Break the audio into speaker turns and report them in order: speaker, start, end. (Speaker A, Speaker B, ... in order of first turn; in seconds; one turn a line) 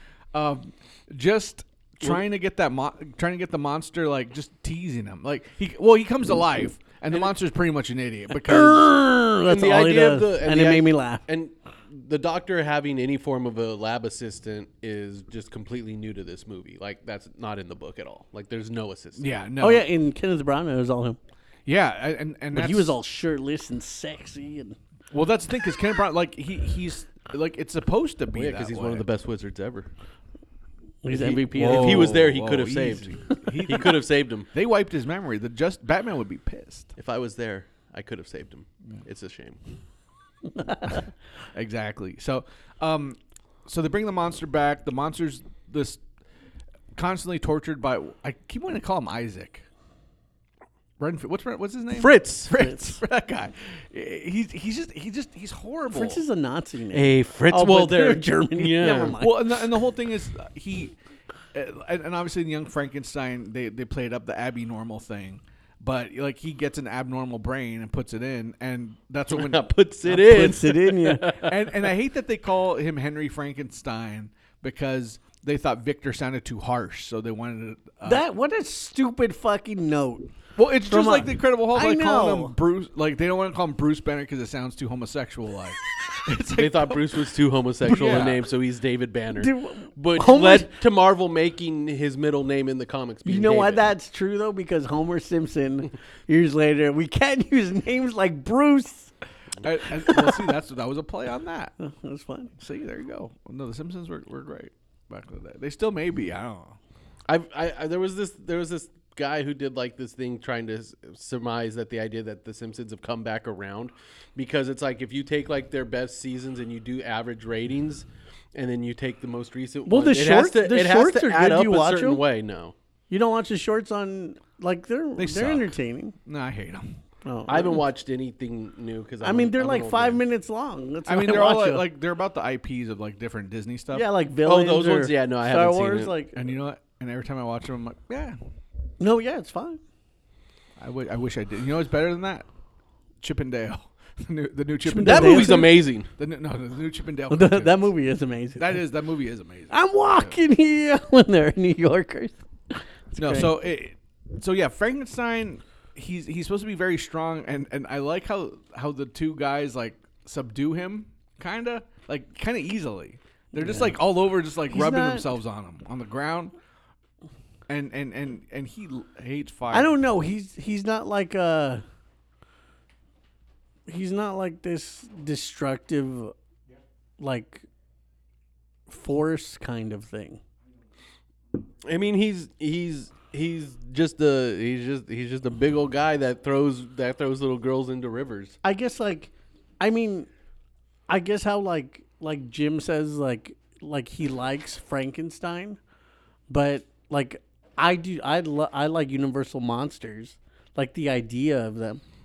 Speaker A: 0.3-8.9
Speaker B: 8.4-11.2
Speaker C: 9.5-19.3
Speaker A: 19.2-19.9
Speaker B: 19.6-21.2
Speaker A: 21.6-22.9
Speaker B: 22.5-24.8
Speaker A: 25.1-29.0
Speaker C: 28.3-29.9
Speaker B: 31.0-32.2
Speaker C: 31.1-34.5
Speaker A: 31.6-36.9
Speaker C: 37.0-39.6
Speaker B: 40.6-41.0
Speaker A: 41.5-46.0
Speaker A: 46.9-49.7
Speaker A: 51.0-56.2
Speaker C: 51.9-52.6
Speaker B: 52.6-52.9
Speaker B: 55.9-59.5
Speaker C: 56.9-59.2
Speaker A: 58.8-60.9
Speaker A: 61.5-69.6
Speaker C: 69.3-71.7
Speaker B: 70.1-71.4
Speaker A: 71.4-78.2
Speaker B: 78.0-80.3
Speaker A: 80.6-87.0
Speaker B: 80.8-82.5
Speaker C: 86.6-93.8
Speaker A: 87.8-88.4
Speaker B: 89.4-90.7
Speaker B: 93.2-99.1
Speaker A: 99.6-101.7
Speaker B: 100.0-100.4
Speaker B: 101.8-102.5
Speaker A: 102.6-106.8
Speaker C: 107.3-122.7
Speaker B: 119.8-122.2
Speaker B: 123.1-126.1
Speaker A: 125.2-125.7
Speaker A: 126.2-127.0
Speaker B: 127.2-127.8
Speaker C: 127.5-130.2
Speaker B: 129.2-131.8
Speaker A: 131.1-134.1
Speaker B: 133.9-136.3
Speaker C: 134.4-136.1
Speaker A: 136.3-138.4
Speaker B: 139.0-139.8
Speaker A: 140.8-142.5
Speaker A: 143.2-147.9
Speaker B: 144.8-145.8
Speaker C: 145.0-146.1
Speaker B: 147.3-148.8
Speaker A: 148.6-150.3
Speaker B: 149.7-153.5
Speaker A: 153.2-166.5
Speaker B: 163.5-163.9
Speaker B: 164.7-165.3
Speaker A: 167.7-169.9
Speaker B: 169.7-171.8
Speaker B: 173.9-176.3
Speaker B: 177.2-177.6
Speaker B: 178.9-180.4
Speaker C: 181.8-188.6
Speaker B: 188.6-190.3
Speaker B: 191.1-195.8
Speaker B: 196.5-202.0